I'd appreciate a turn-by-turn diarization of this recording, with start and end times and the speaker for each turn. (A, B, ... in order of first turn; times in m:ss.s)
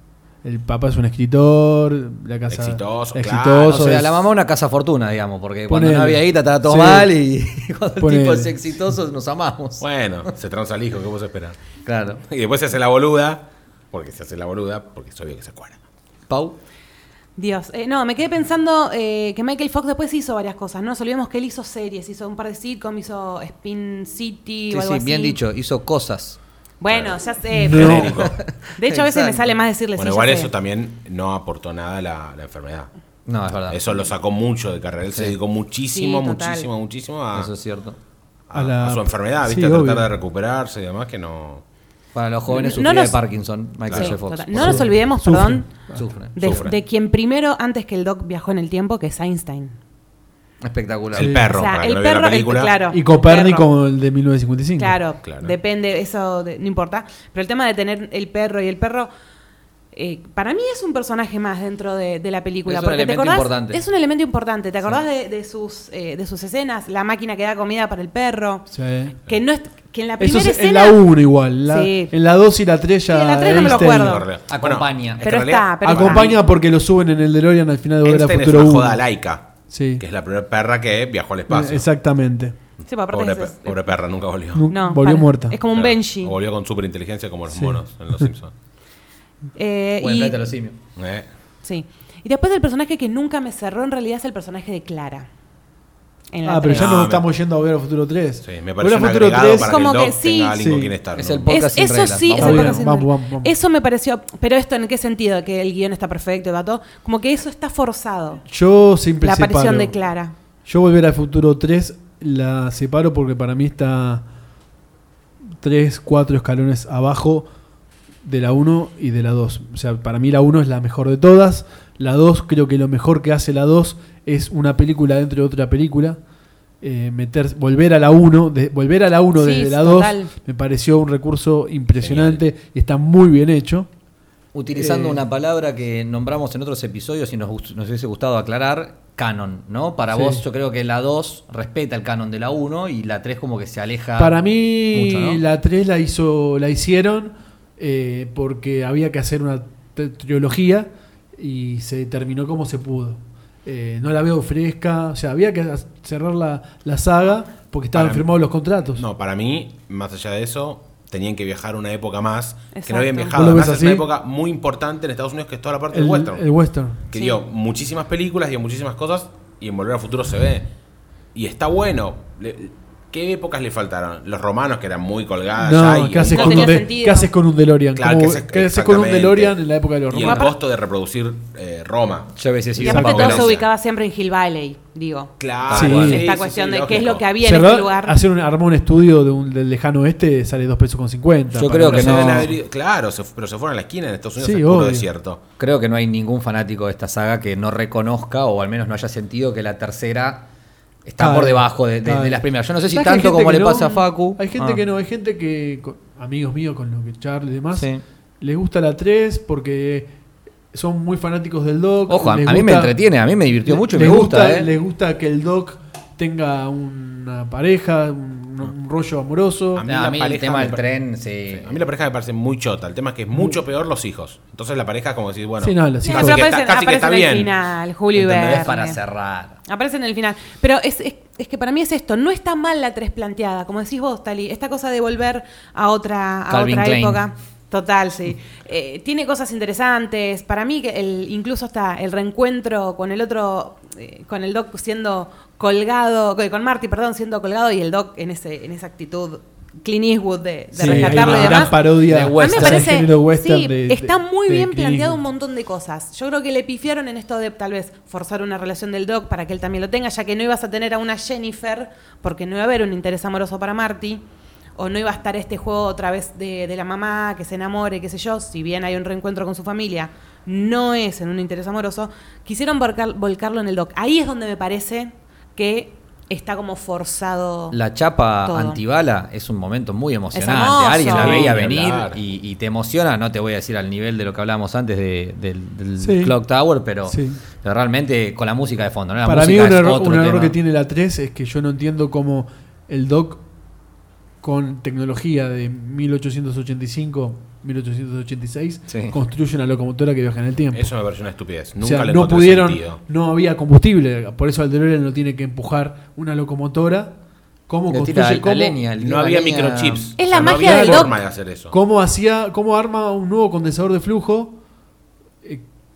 0:00.4-0:04.3 A
0:02.5-0:03.8 B
0:03.7-0:10.3 C
0:05.7-0:07.1 A
0:08.0-0:08.6 A
0:09.8-0:11.6 B
0:11.8-0:12.2 C
0:12.2-0:15.8 B
0:16.3-0:16.6 C
0:17.4-0:25.4 D
0:24.7-0:26.4 C
0:26.8-0:28.1 D
0:26.9-0:27.2 B
0:27.5-0:28.2 A
0:27.7-0:28.4 B
0:28.0-0:29.4 C
0:28.8-0:30.5 D
0:30.0-0:32.9 B
0:33.3-0:34.1 C
0:33.7-0:37.5 B
0:35.1-0:35.4 C
0:35.9-0:36.7 D
0:37.3-0:38.0 C
0:38.5-0:41.6 B
0:38.5-0:40.1 A
0:42.2-0:44.9 C
0:42.5-0:43.2 D
0:43.8-0:44.8 B
0:43.9-0:45.7 D
0:44.6-0:46.1 A
0:46.0-0:46.7 C
0:46.4-0:49.8 D
0:46.4-0:46.8 B
0:50.6-0:51.4 C
0:51.1-0:52.8 B
0:51.2-0:51.5 A
0:51.5-0:53.7 D
0:52.9-0:55.0 A
0:54.8-0:59.1 D
0:55.2-0:55.6 B
0:59.9-1:08.7 D
1:02.7-1:03.8 C
1:08.7-1:09.2 A
1:09.2-1:11.0 D
1:10.2-1:14.3 A
1:11.7-1:12.1 D
1:13.1-1:14.3 D
1:13.4-1:16.4 B
1:14.5-1:15.2 C
1:15.2-1:16.4 D
1:15.8-1:19.0 A
1:18.0-1:21.8 B
1:19.7-1:20.0 A
1:21.5-1:22.6 A
1:22.9-1:23.8 D
1:23.1-1:24.7 B
1:24.5-1:25.6 A
1:24.7-1:26.4 D
1:25.7-1:28.5 B
1:27.5-1:28.3 A
1:29.6-1:30.4 D
1:30.0-1:30.8 C
1:31.0-1:31.3 B
1:31.6-1:35.3 D
1:36.3-1:36.9 D
1:36.4-1:39.9 A
1:36.7-1:37.2 B
1:38.4-1:41.5 B
1:39.5-1:40.6 D
1:40.6-1:41.0 A
1:41.2-1:42.8 C
1:41.5-1:48.4 D
1:42.3-1:43.5 A
1:48.5-1:50.0 A
1:49.2-1:50.3 D
1:50.7-1:54.2 A
1:55.6-1:57.5 A
1:58.2-2:06.2 A
2:06.8-2:13.9 A
2:09.4-2:10.3 D
2:12.0-2:12.4 B
2:14.5-2:25.4 C
2:14.7-2:15.2 A
2:20.1-2:20.4 A
2:24.2-2:39.0 A
2:37.9-2:38.3 B
2:39.0-2:46.4 B
2:42.7-2:43.4 D
2:43.4-2:44.1 A
2:45.9-2:47.0 A
2:47.1-2:50.7 B
2:47.1-2:47.4 D
2:51.3-2:56.8 B
2:55.6-3:00.5 A
2:56.3-2:57.3 D
2:58.0-2:59.6 B
3:00.1-3:02.3 B
3:00.2-3:00.5 D
3:02.4-3:03.6 C
3:02.8-3:03.4 A
3:02.8-3:05.4 D
3:03.0-3:03.7 B
3:05.4-3:07.3 B
3:05.7-3:06.2 C
3:05.7-3:06.3 A
3:05.9-3:08.2 D
3:07.4-3:12.5 A
3:11.5-3:12.5 C
3:11.7-3:15.4 B
3:14.4-3:15.1 A
3:15.6-3:20.5 C
3:21.1-3:24.8 C
3:21.2-3:27.9 A
3:27.8-3:28.0 C
3:28.4-3:30.1 A
3:30.7-3:33.0 A
3:32.1-3:34.7 C
3:33.7-3:39.9 A
3:39.8-3:40.8 B
3:39.8-3:41.8 C
3:41.5-3:47.6 B
3:43.3-3:43.6 A
3:45.6-3:46.4 A
3:46.0-3:49.0 D
3:48.2-3:48.5 B
3:48.2-3:49.6 C
3:49.7-4:24.2 D
3:56.5-3:57.2 C
4:10.8-4:15.2 A
4:10.8-4:12.9 C
4:24.8-4:37.8 D
4:37.7-4:50.6 C
4:38.5-4:38.8 D
4:40.3-4:41.5 D
4:41.1-4:42.2 B
4:46.0-4:46.4 A
4:47.1-4:47.4 A
4:49.2-4:53.4 A
4:54.4-5:00.9 A
4:58.9-4:59.2 C
5:00.7-5:03.0 B
5:01.8-5:07.2 A
5:07.7-5:08.8 A
5:07.9-5:10.1 C
5:09.0-5:11.7 B
5:10.2-5:11.1 D
5:10.4-5:11.1 A
5:11.7-5:14.6 A